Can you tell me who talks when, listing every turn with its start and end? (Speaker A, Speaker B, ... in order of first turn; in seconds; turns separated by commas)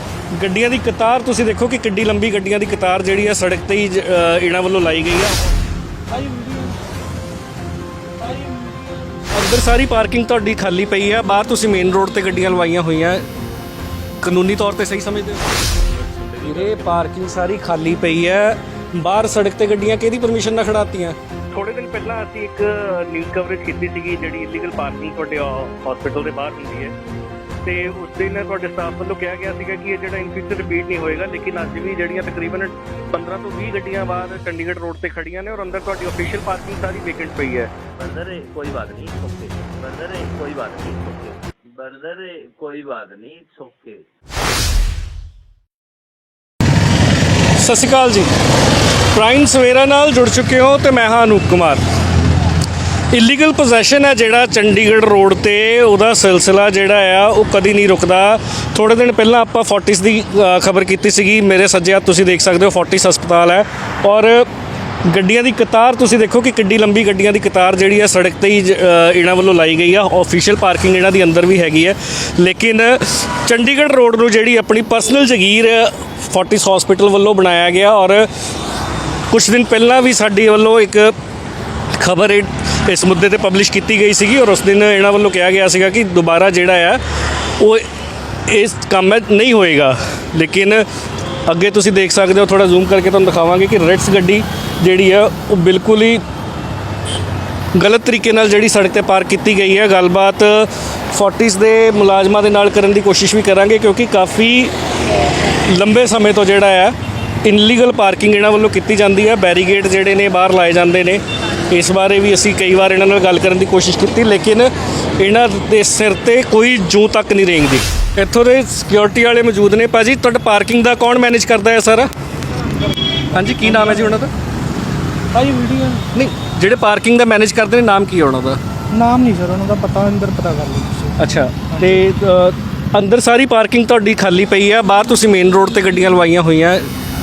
Speaker A: 0.3-5.5, Speaker B: 6.2-6.8, Speaker A: 9.3-13.2, Speaker A: 14.2-15.5, Speaker A: 16.4-26.9, Speaker A: 27.6-37.7, Speaker C: 38.0-44.0, Speaker A: 47.6-48.3, Speaker A: 49.1-51.8, Speaker A: 53.1-64.5, Speaker A: 65.1-78.3, Speaker A: 79.3-81.1, Speaker A: 82.0-87.0, Speaker A: 87.6-87.8, Speaker A: 88.5-90.8, Speaker A: 91.5-96.2, Speaker A: 97.7-104.7, Speaker A: 105.4-122.1, Speaker A: 123.3-124.3, Speaker B: 125.4-125.8, Speaker A: 126.1-128.6, Speaker B: 128.9-131.1, Speaker A: 131.2-136.9